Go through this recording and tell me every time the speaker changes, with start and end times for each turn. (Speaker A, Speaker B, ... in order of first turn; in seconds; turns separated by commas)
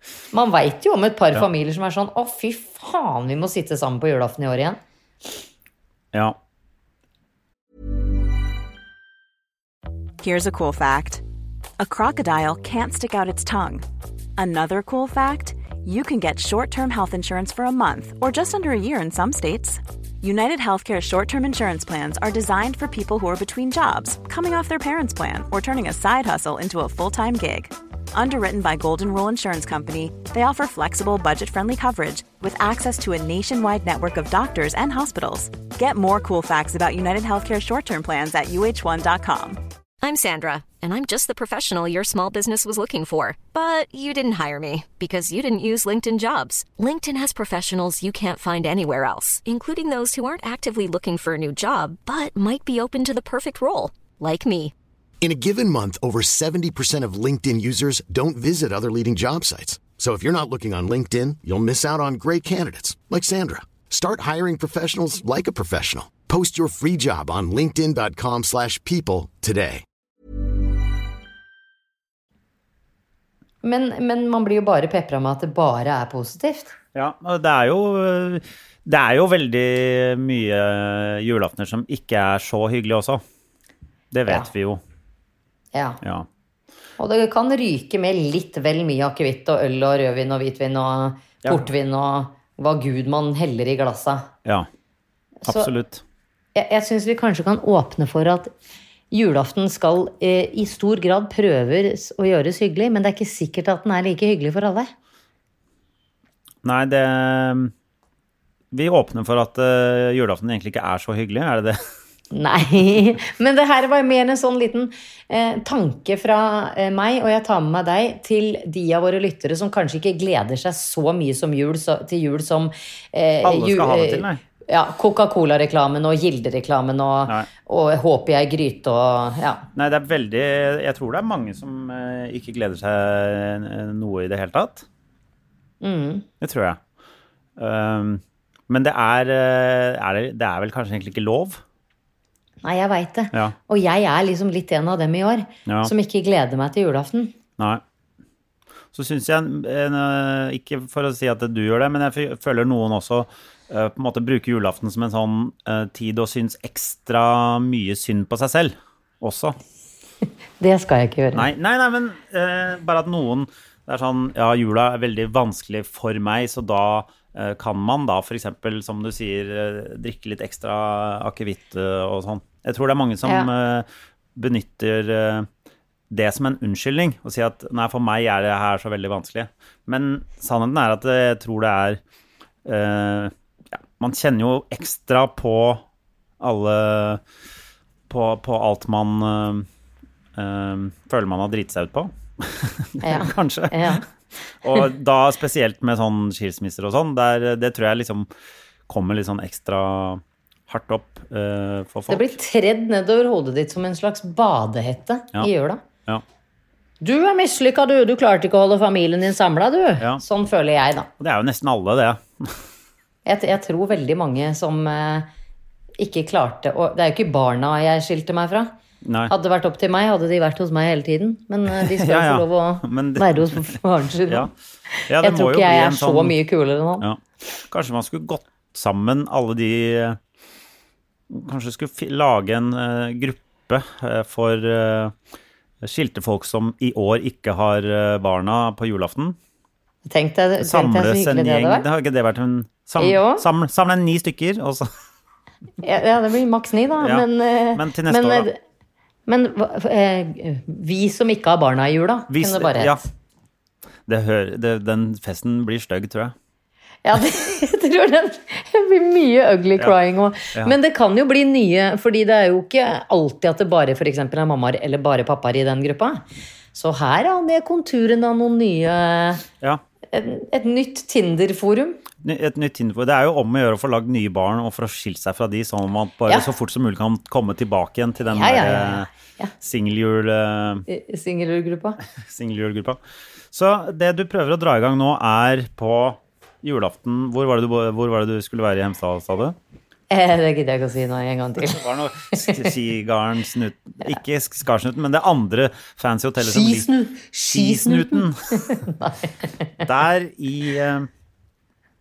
Speaker A: 0.3-4.8, Speaker B: 10.2-11.2, Speaker B: 11.8-13.8, Speaker B: 14.4-39.6, Speaker C: 40.0-54.7, Speaker D: 55.2-69.8, Speaker A: 73.6-76.8, Speaker E: 77.0-83.2, Speaker E: 84.1-84.8, Speaker A: 85.7-86.0, Speaker E: 86.0-86.3, Speaker A: 87.0-94.3, Speaker A: 95.4-95.7, Speaker E: 95.5-96.0, Speaker A: 96.5-98.5, Speaker A: 99.1-104.9, Speaker E: 106.6-107.7, Speaker E: 108.7-111.8, Speaker A: 112.3-129.7, Speaker E: 123.4-124.4, Speaker E: 129.8-134.9, Speaker A: 135.8-136.3, Speaker E: 136.4-136.8, Speaker E: 137.6-141.6, Speaker A: 142.6-147.3, Speaker E: 145.7-145.9, Speaker E: 147.6-147.8, Speaker E: 148.9-159.6, Speaker A: 160.6-161.5, Speaker E: 161.3-175.5, Speaker A: 173.2-173.5, Speaker E: 176.1-182.0, Speaker E: 182.7-185.8, Speaker E: 186.4-187.2, Speaker E: 188.1-189.7, Speaker E: 190.3-194.0, Speaker A: 193.0-194.1, Speaker E: 194.6-198.3, Speaker E: 198.9-202.3, Speaker A: 202.1-205.8, Speaker A: 207.0-211.1, Speaker E: 211.2-212.6, Speaker A: 213.2-215.3, Speaker A: 216.0-218.7, Speaker E: 219.0-219.3, Speaker A: 219.3-227.1, Speaker E: 221.7-224.5, Speaker E: 225.1-226.4, Speaker E: 227.0-230.2, Speaker E: 231.3-235.2, Speaker E: 235.8-239.4, Speaker A: 240.1-241.8, Speaker E: 240.6-244.9, Speaker A: 243.0-243.4, Speaker A: 245.8-248.6, Speaker E: 247.0-248.5, Speaker A: 249.3-253.1, Speaker E: 252.3-253.0, Speaker E: 254.1-256.4, Speaker A: 257.1-269.4, Speaker A: 270.1-272.0, Speaker E: 272.2-279.1, Speaker A: 278.3-279.5, Speaker E: 279.6-280.9, Speaker A: 280.9-282.0, Speaker E: 282.1-283.0, Speaker E: 283.5-289.6, Speaker A: 290.1-292.7, Speaker E: 291.6-296.9, Speaker A: 296.4-299.5, Speaker E: 297.5-298.8, Speaker E: 299.8-301.1